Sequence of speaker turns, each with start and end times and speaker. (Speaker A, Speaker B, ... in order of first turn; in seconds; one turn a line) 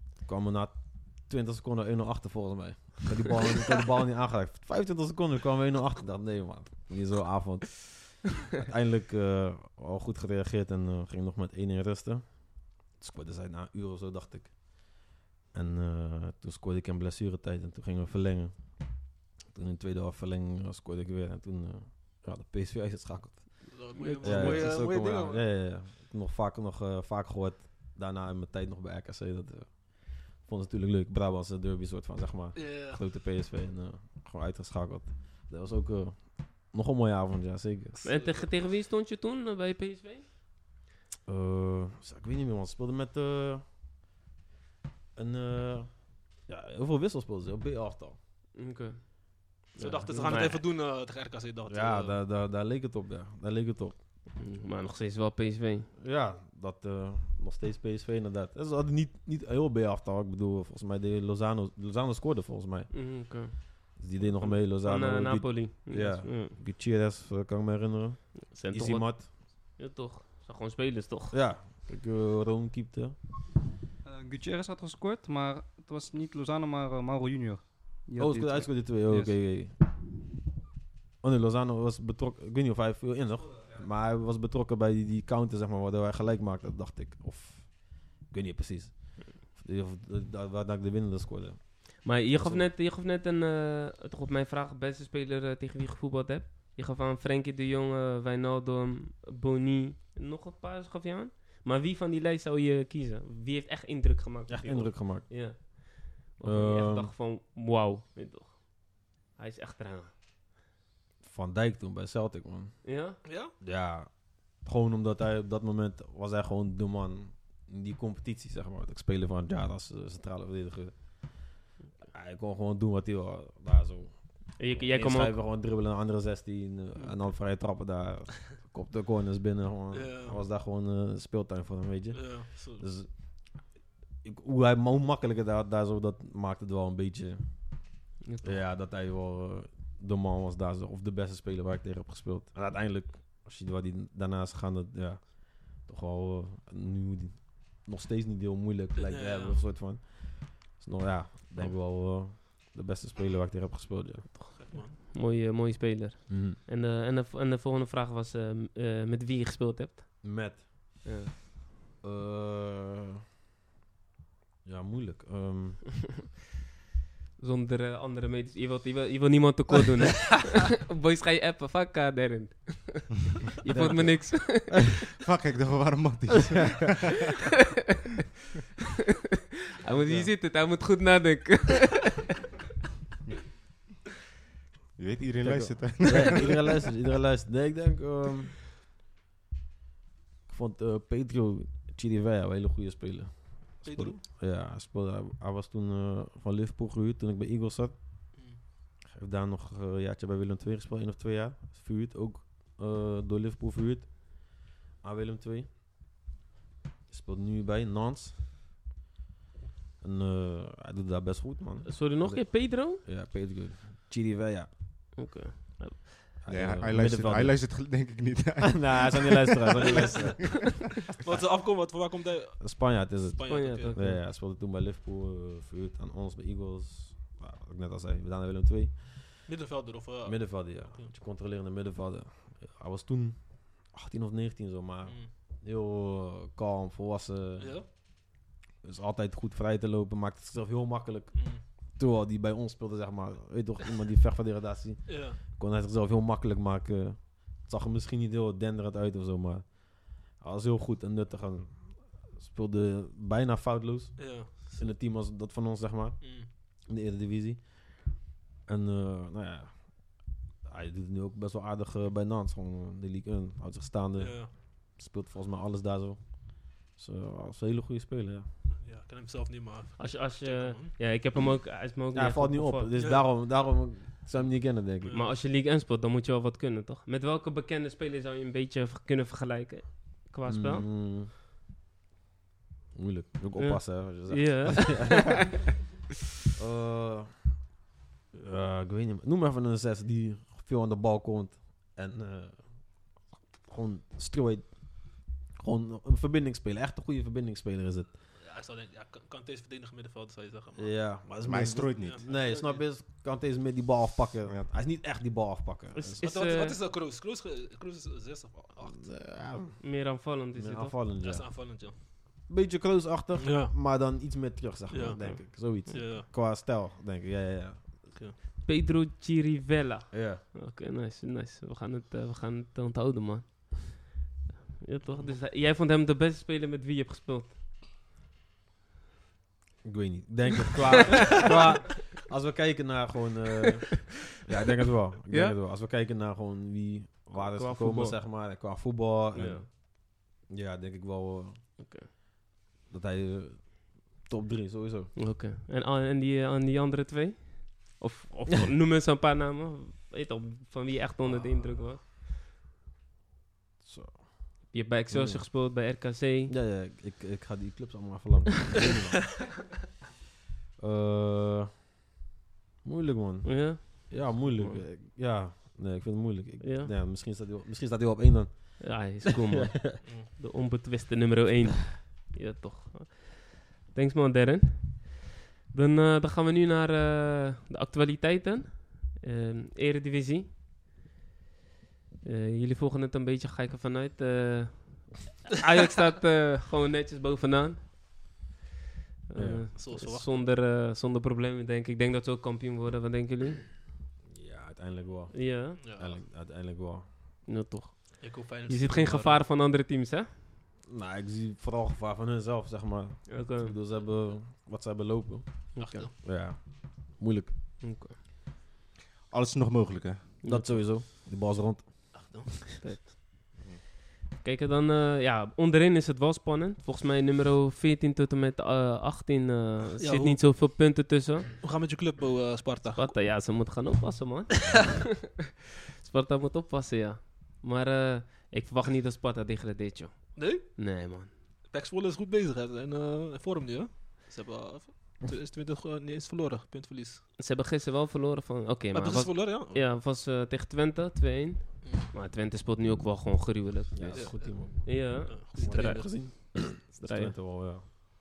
Speaker A: 0.2-38.0
Speaker B: 23.7-25.5
Speaker C: 23.9-24.9
Speaker B: 32.5-33.0
Speaker B: 38.0-38.5
Speaker C: 38.0-40.2
Speaker A: 41.3-43.6
Speaker A: 45.1-48.2
Speaker C: 48.5-50.6
Speaker B: 49.8-52.2
Speaker A: 50.1-50.4
Speaker A: 51.7-54.0
Speaker C: 54.4-55.9
Speaker A: 56.0-69.3
Speaker C: 62.9-66.6
Speaker C: 68.4-71.5
Speaker A: 71.3-73.2
Speaker D: 74.0-79.4
Speaker A: 78.2-79.8
Speaker A: 81.2-92.7
Speaker C: 92.0-110.1
Speaker A: 104.5-105.7
Speaker A: 106.4-107.1
Speaker A: 111.2-121.5
Speaker C: 112.8-113.2
Speaker B: 113.2-113.5
Speaker A: 122.1-154.4
Speaker C: 124.6-125.4
Speaker B: 129.9-130.4
Speaker B: 132.1-132.9
Speaker C: 138.2-138.7
Speaker B: 149.0-149.7
Speaker B: 154.3-154.9
Speaker C: 154.7-161.3
Speaker A: 156.3-156.6
Speaker A: 160.2-161.1
Speaker A: 162.0-163.2
Speaker A: 164.7-165.8
Speaker C: 167.4-175.0
Speaker A: 173.7-174.8
Speaker E: 175.1-177.2
Speaker C: 179.8-182.2
Speaker A: 180.0-180.3
Speaker E: 185.0-186.6
Speaker A: 185.4-188.7
Speaker A: 190.5-198.3
Speaker B: 193.8-194.2
Speaker B: 198.3-198.6
Speaker A: 199.1-205.7
Speaker A: 207.1-208.4
Speaker A: 210.0-214.7
Speaker C: 211.8-213.0
Speaker C: 215.2-216.2
Speaker A: 216.4-217.6
Speaker E: 216.5-220.7
Speaker A: 218.7-221.4
Speaker B: 219.8-223.9
Speaker A: 222.6-229.5
Speaker C: 223.5-224.2
Speaker B: 229.5-231.1
Speaker A: 230.2-238.0
Speaker B: 237.6-237.9
Speaker A: 238.8-268.5
Speaker B: 241.3-241.6
Speaker B: 245.1-245.4
Speaker B: 254.2-254.9
Speaker B: 256.2-256.5
Speaker B: 264.2-264.5
Speaker B: 268.8-271.0
Speaker C: 270.0-272.9
Speaker A: 272.1-275.2
Speaker B: 273.0-273.3
Speaker B: 275.0-275.3
Speaker C: 275.1-280.9
Speaker A: 280.5-281.3
Speaker A: 282.9-285.6
Speaker C: 283.6-285.6
Speaker A: 286.6-287.7
Speaker A: 288.3-298.1
Speaker B: 298.4-301.2
Speaker A: 300.8-306.2
Speaker E: 301.4-302.2
Speaker B: 302.0-302.9
Speaker C: 305.9-306.8
Speaker B: 306.2-309.1
Speaker A: 308.8-310.0
Speaker C: 309.8-311.0
Speaker A: 310.6-311.7
Speaker B: 311.2-312.0
Speaker A: 312.5-318.1
Speaker B: 313.4-313.8
Speaker B: 314.9-316.3
Speaker C: 315.2-316.0
Speaker B: 318.1-318.4
Speaker C: 318.6-324.2
Speaker A: 320.1-320.4
Speaker C: 324.8-327.6
Speaker B: 325.1-325.4
Speaker A: 329.8-341.6
Speaker C: 335.3-335.6
Speaker C: 337.3-338.2
Speaker C: 339.3-339.7
Speaker C: 341.8-342.1
Speaker A: 342.9-345.1
Speaker C: 345.1-352.1
Speaker A: 353.8-355.5
Speaker C: 354.7-356.6
Speaker A: 356.5-359.5
Speaker A: 360.8-361.8
Speaker A: 362.8-369.9
Speaker C: 363.4-364.8
Speaker C: 366.6-366.9
Speaker C: 368.8-380.5
Speaker C: 382.2-387.9
Speaker C: 389.3-393.8
Speaker A: 389.4-389.7
Speaker B: 389.8-390.4
Speaker A: 394.3-397.5
Speaker C: 395.3-395.8
Speaker B: 395.8-396.2
Speaker C: 397.5-400.3
Speaker B: 398.2-399.4
Speaker A: 400.9-407.5
Speaker C: 403.3-403.8
Speaker C: 405.7-406.1
Speaker B: 405.8-406.1
Speaker C: 407.8-408.1
Speaker E: 409.3-410.4
Speaker C: 410.4-410.9
Speaker A: 410.4-412.4
Speaker B: 412.1-412.7
Speaker C: 412.8-413.6
Speaker C: 414.4-421.5
Speaker B: 420.0-420.5
Speaker B: 421.6-423.1
Speaker C: 422.9-425.0
Speaker C: 426.0-431.3
Speaker B: 430.4-430.8
Speaker B: 431.7-437.3
Speaker C: 437.4-448.0
Speaker B: 438.9-439.8
Speaker A: 443.9-447.9
Speaker B: 444.1-446.1